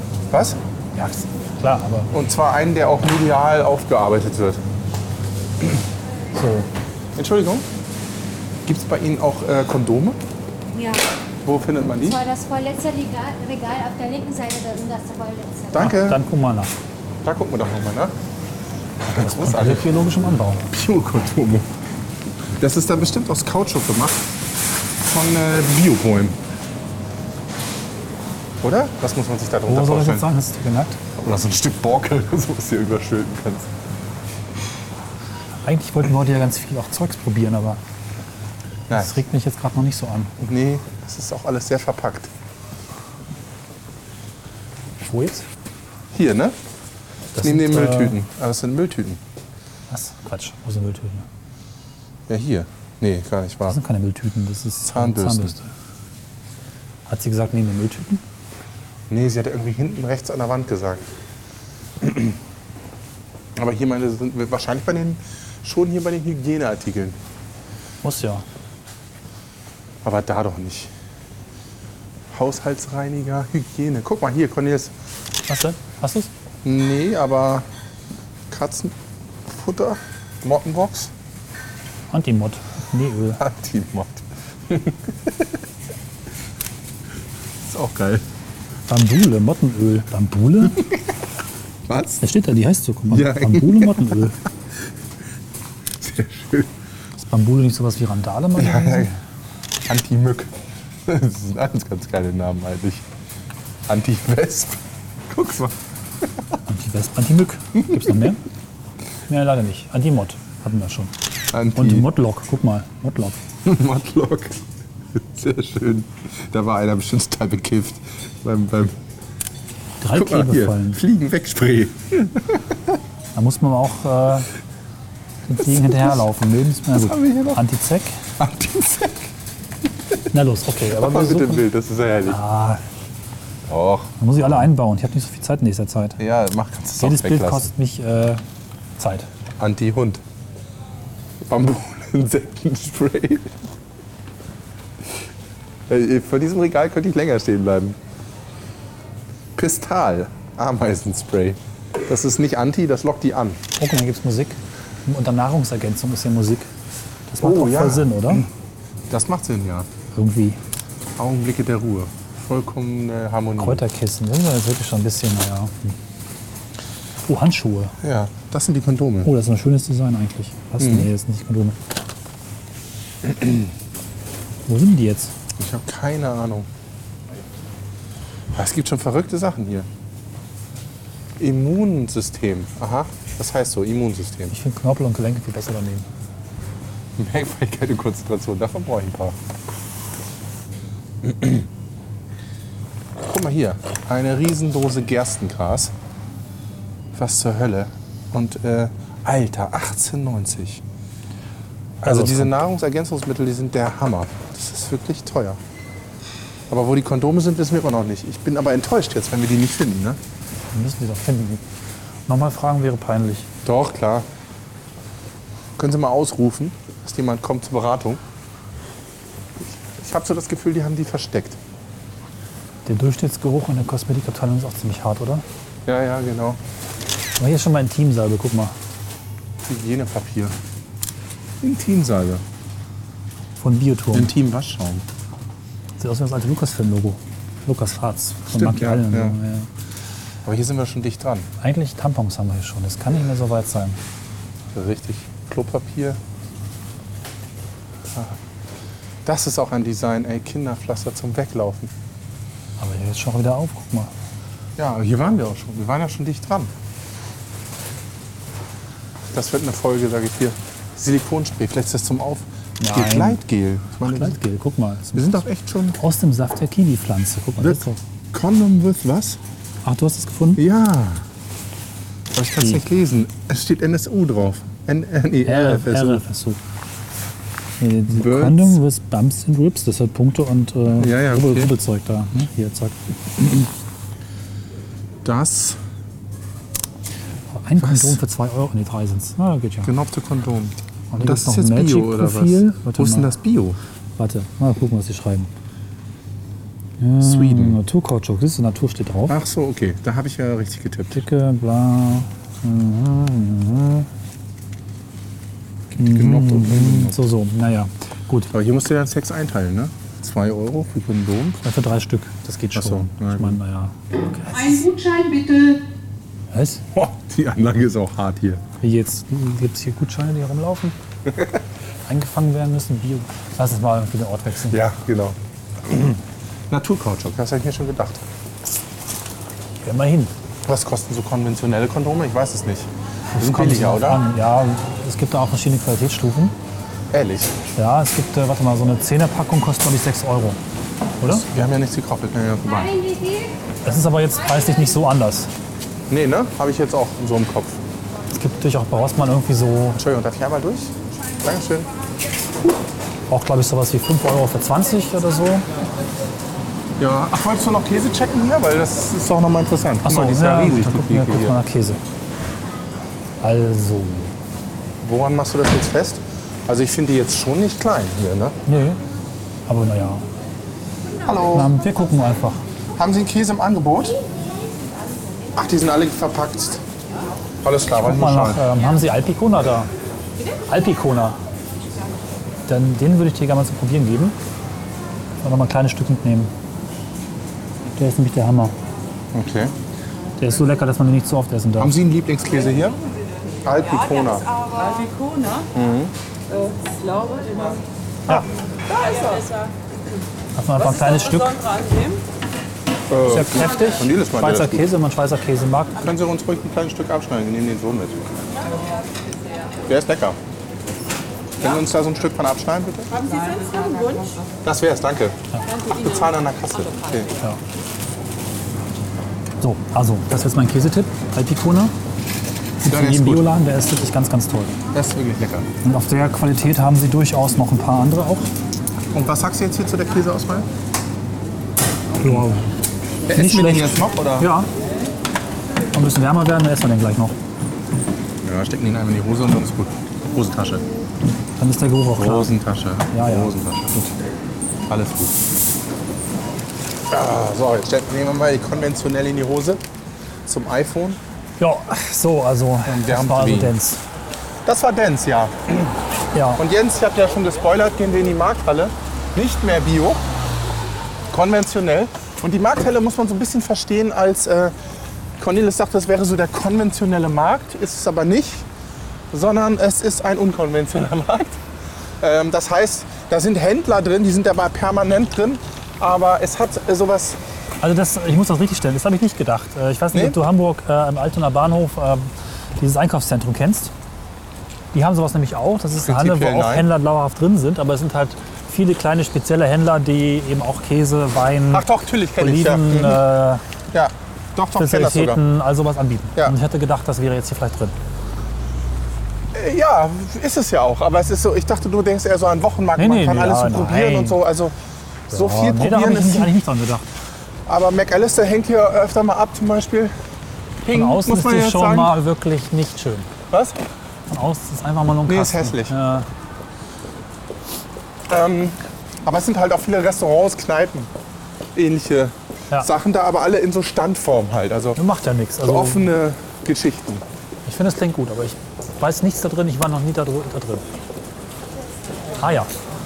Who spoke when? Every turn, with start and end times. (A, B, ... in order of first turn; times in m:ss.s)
0:00.3-0:00.6 A
0:01.0-0:02.1 B
0:02.1-0:04.6 A
0:06.3-0:06.7 B
0:07.1-0:07.7 A
0:08.6-0:10.2 A
0:10.7-0:11.0 C
0:11.4-0:12.2 A
0:12.0-0:15.9 C
0:15.7-0:16.2 A
0:15.8-0:16.7 B
0:17.2-0:18.1 A
0:19.0-0:19.9 A
0:19.2-0:20.7 B
0:20.7-0:21.7 A
0:22.5-0:24.2 A
0:25.0-0:26.4 A
0:28.6-0:30.3 A
0:29.7-0:31.0 B
0:31.2-0:33.7 A
0:35.6-0:37.8 B
0:38.9-0:39.2 A
0:38.9-0:40.4 B
0:40.4-0:42.3 A
0:45.0-0:45.4 B
0:46.1-0:46.6 A
0:47.3-0:48.2 B
0:47.4-0:49.2 A
0:49.9-0:51.3 B
0:52.3-0:53.8 A
0:53.7-0:55.7 B
0:54.8-0:55.5 A
0:57.1-0:58.2 B
0:59.1-1:01.1 A
1:02.0-1:02.4 A
1:03.6-1:07.2 A
1:08.0-1:08.4 B
1:10.0-1:10.9 A
1:12.3-1:14.9 A
1:15.5-1:16.3 B
1:16.6-1:17.6 A
1:18.5-1:18.9 A
1:19.5-1:21.1 A
1:22.1-1:23.4 B
1:23.4-1:25.5 A
1:27.6-1:28.2 A
1:28.9-1:30.9 B
1:31.9-1:32.2 A
1:32.2-1:34.4 B
1:33.1-1:34.2 A
1:36.0-1:36.7 A
1:37.2-1:39.2 B
1:38.6-1:39.1 A
1:39.8-1:40.5 A
1:41.0-1:43.0 A
1:43.9-1:46.3 A
1:46.6-1:48.4 B
1:49.3-1:51.1 B
1:51.5-1:52.1 A
1:51.8-1:53.4 B
1:53.6-1:59.0 A
2:00.0-2:01.0 B
2:00.1-2:02.8 A
2:03.3-2:04.5 B
2:05.5-2:08.2 B
2:05.7-2:06.2 A
2:06.9-2:07.6 A
2:08.4-2:09.3 A
2:10.3-2:11.6 B
2:10.9-2:12.4 A
2:12.3-2:12.8 B
2:13.7-2:14.2 A
2:14.2-2:16.2 B
2:16.2-2:17.7 A
2:17.0-2:18.4 B
2:19.0-2:19.3 B
2:19.6-2:20.2 A
2:21.4-2:23.6 A
2:25.9-2:28.0 A
2:29.6-2:33.6 A
2:33.8-2:36.7 B
2:37.3-2:38.4 B
2:37.4-2:38.5 A
2:39.1-2:39.9 A
2:40.1-2:40.6 B
2:41.2-2:43.8 A
2:43.6-2:46.0 B
2:47.3-2:48.0 B
2:48.0-2:49.3 A
2:49.2-2:51.8 B
2:50.8-2:51.1 A
2:53.2-2:53.7 A
2:54.6-2:55.3 B
2:55.6-2:56.7 A
2:58.5-2:59.9 A
3:01.4-3:04.5 A
3:04.5-3:06.1 B
3:07.2-3:09.4 A
3:11.2-3:11.7 A
3:13.2-3:15.9 A
3:17.1-3:20.8 A
3:22.0-3:25.6 A
3:22.0-3:22.5 B
3:26.7-3:30.2 A
3:30.7-3:31.6 B
3:32.3-3:33.5 B
3:33.6-3:34.3 A
3:35.8-3:38.2 A
3:39.6-3:41.6 A
3:42.8-3:45.4 B
3:45.8-3:46.6 A
3:47.4-3:48.7 B
3:49.6-3:50.6 A
3:51.6-3:52.4 A
3:53.6-3:54.3 B
3:54.1-3:55.0 A
3:56.0-3:59.7 B
3:58.5-3:59.3 A
4:00.4-4:01.5 A
4:01.6-4:04.0 B
4:04.7-4:06.2 A
4:09.2-4:11.9 A
4:12.8-4:14.1 B
4:14.8-4:16.7 A
4:19.3-4:24.4 A
4:22.8-4:23.4 B
4:24.0-4:25.4 B
4:25.1-4:26.0 A
4:26.0-4:28.0 B
4:27.6-4:29.4 A
4:29.8-4:30.6 B
4:30.6-4:31.2 A
4:32.3-4:36.2 A
4:35.4-4:36.6 B
4:37.8-4:43.0 B
4:38.1-4:38.8 A
4:41.0-4:41.7 A
4:45.2-4:45.8 A
4:47.5-4:49.9 B
4:47.8-4:48.2 A
4:49.8-4:53.8 A
4:51.1-4:53.3 B
4:54.2-4:55.5 B
4:57.0-4:59.3 B
4:57.2-4:57.8 A
4:59.3-5:01.2 A
5:01.1-5:04.1 B
5:05.9-5:07.2 A
5:06.0-5:08.5 B
5:08.5-5:11.6 A
5:11.6-5:14.8 B
5:12.7-5:13.6 A
5:14.5-5:15.8 D
5:16.5-5:16.8 B
5:16.9-5:18.6 A
5:18.8-5:21.0 B
5:21.3-5:21.6 A
5:22.0-5:24.8 B
5:24.7-5:28.2 A
5:29.8-5:30.3 B
5:30.6-5:34.2 A
5:33.3-5:36.5 B
5:37.1-5:37.6 A
5:37.7-5:40.6 B
5:41.2-5:41.4 B
5:41.3-5:43.0 A
5:43.8-5:45.5 B
5:46.1-5:47.8 A
5:48.3-5:50.0 B
5:49.9-5:51.9 A
5:53.3-5:55.6 B
5:57.0-6:01.6 A
6:00.0-6:02.0 B
6:03.4-6:04.3 B
6:05.0-6:08.6 A
6:08.6-6:09.0 B
6:09.7-6:10.3 B
6:11.2-6:11.7 A
6:11.5-6:12.6 B
6:13.0-6:14.2 A
6:15.5-6:16.8 A
6:17.6-6:18.6 A
6:18.0-6:19.9 B
6:20.7-6:21.4 B
6:22.7-6:24.4 B
6:25.4-6:26.5 B
6:27.9-6:28.7 B
6:29.3-6:29.7 A
6:30.4-6:32.0 B
6:31.8-6:33.0 A
6:33.6-6:34.5 A
6:34.1-6:35.7 D
6:35.7-6:36.1 A
6:36.5-6:37.8 D
6:38.8-6:39.7 D
6:40.6-6:41.6 B
6:40.8-6:42.2 D
6:43.1-6:44.9 A
6:43.2-6:46.0 B
6:46.0-6:48.2 A
6:49.8-6:50.4 A
6:51.6-6:53.1 A
6:53.1-6:54.5 D
6:54.6-6:57.3 A
6:59.6-7:01.9 B
7:02.8-7:04.8 B
7:02.8-7:03.5 A
7:04.9-7:05.7 A
7:05.8-7:08.5 B
7:09.1-7:10.7 A
7:12.2-7:12.7 B
7:13.3-7:14.5 A
7:13.3-7:14.7 B
7:15.9-7:17.4 B
7:18.4-7:20.8 A
7:21.6-7:22.5 B
7:22.1-7:24.0 A
7:23.1-7:24.1 B
7:24.9-7:25.4 A
7:27.1-7:29.8 A
7:30.4-7:31.2 A
7:31.6-7:34.0 B
7:32.8-7:33.7 A
7:34.6-7:35.9 A
7:36.3-7:36.6 B
7:36.6-7:40.2 A
7:41.3-7:44.7 A
7:45.4-7:48.7 A
7:49.3-7:51.6 A
7:52.2-7:57.4 A
7:57.8-8:03.9 B
8:00.1-8:00.4 A
8:04.9-8:11.8 B
8:06.0-8:06.9 A
8:11.7-8:13.2 A
8:12.4-8:13.6 B
8:13.9-8:15.4 A
8:14.8-8:17.9 B
8:19.5-8:24.7 A
8:23.0-8:24.4 B
8:25.3-8:26.5 A
8:25.3-8:27.0 B
8:27.6-8:30.1 A
8:30.8-8:32.1 A
8:30.9-8:33.3 B
8:33.5-8:33.8 A
8:34.3-8:36.3 B
8:35.2-8:35.9 A
8:38.3-8:41.1 A
8:41.7-8:45.0 A
8:45.0-8:46.1 B
8:45.6-8:47.2 A
8:47.6-8:50.8 B
8:52.4-8:52.7 B